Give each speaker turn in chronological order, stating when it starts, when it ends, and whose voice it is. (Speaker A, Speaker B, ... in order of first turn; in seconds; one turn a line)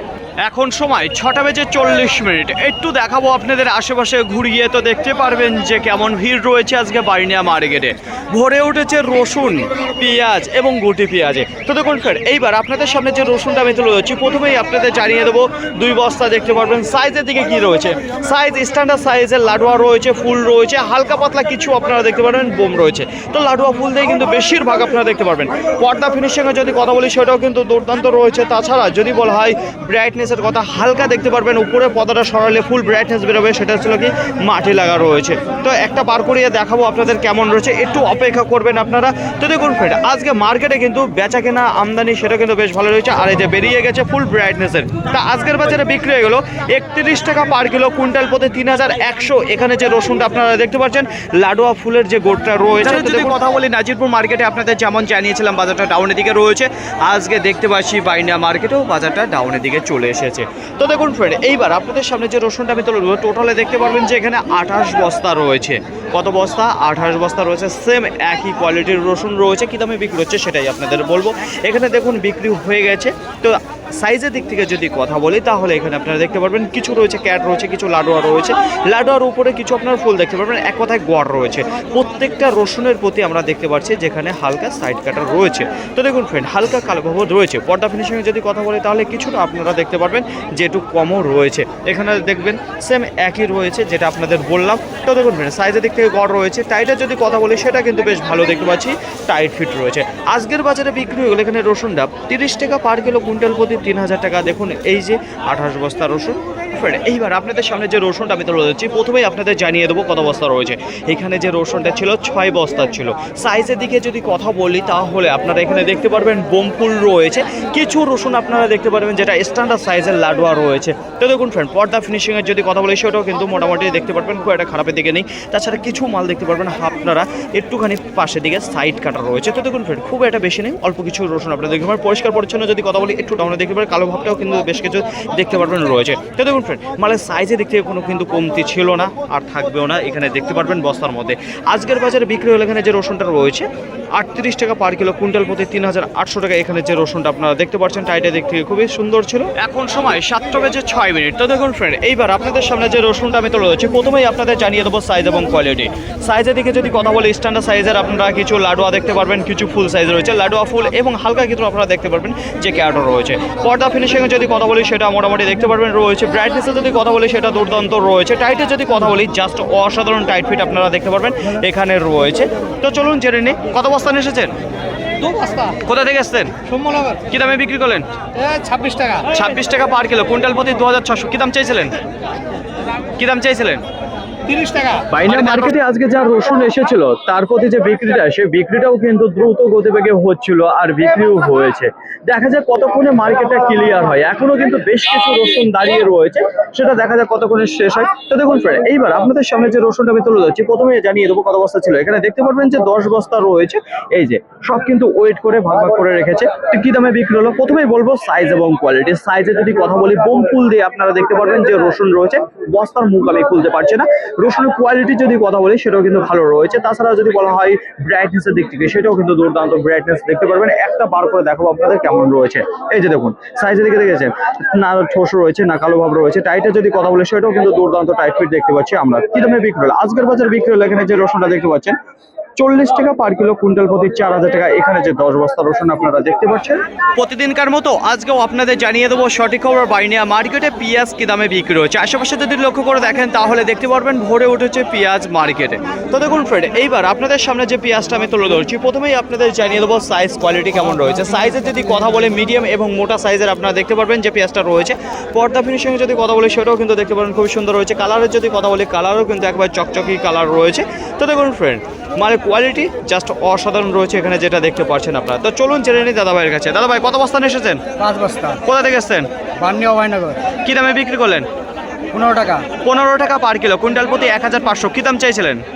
Speaker A: 0.4-174.5
Speaker B: 52.8-53.4
Speaker C: 175.2-175.8
Speaker A: 175.8-176.6
Speaker C: 176.7-177.2
Speaker A: 177.2-178.1
Speaker C: 178.4-179.3
Speaker A: 179.3-181.9
Speaker A: 183.2-183.8
Speaker C: 184.5-185.0
Speaker B: 185.1-231.9
Speaker A: 185.2-185.7
Speaker B: 232.6-236.8
Speaker A: 237.2-267.8
Speaker C: 268.0-268.6
Speaker A: 268.6-269.3
Speaker C: 269.6-270.4
Speaker A: 270.6-271.4
Speaker C: 272.1-272.7
Speaker A: 272.8-275.6